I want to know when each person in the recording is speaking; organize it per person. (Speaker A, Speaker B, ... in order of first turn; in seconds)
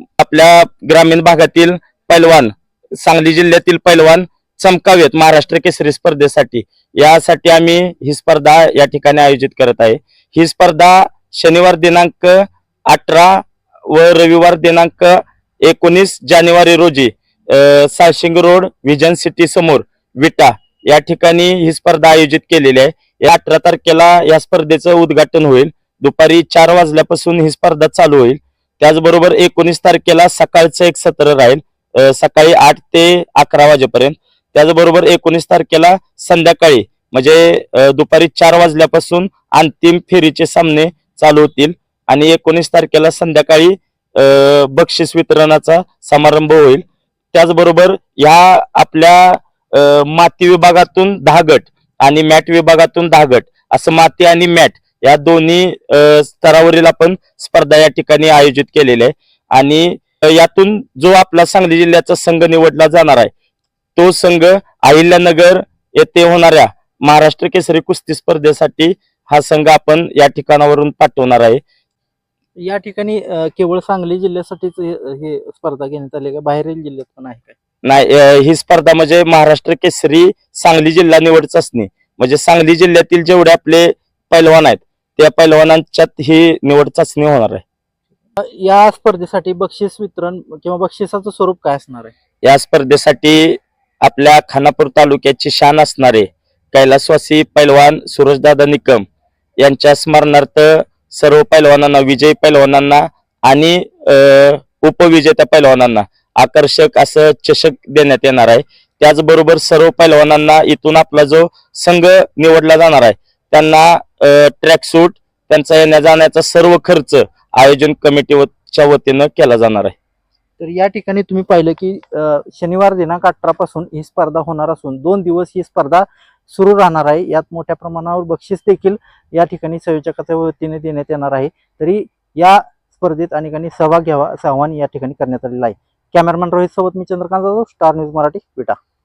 Speaker A: 0.2-63.3, 64.0-71.6, 77.8-87.6, 92.4-99.0, 99.6-119.9
Speaker B: 72.6-77.5, 88.4-92.1, 120.6-138.8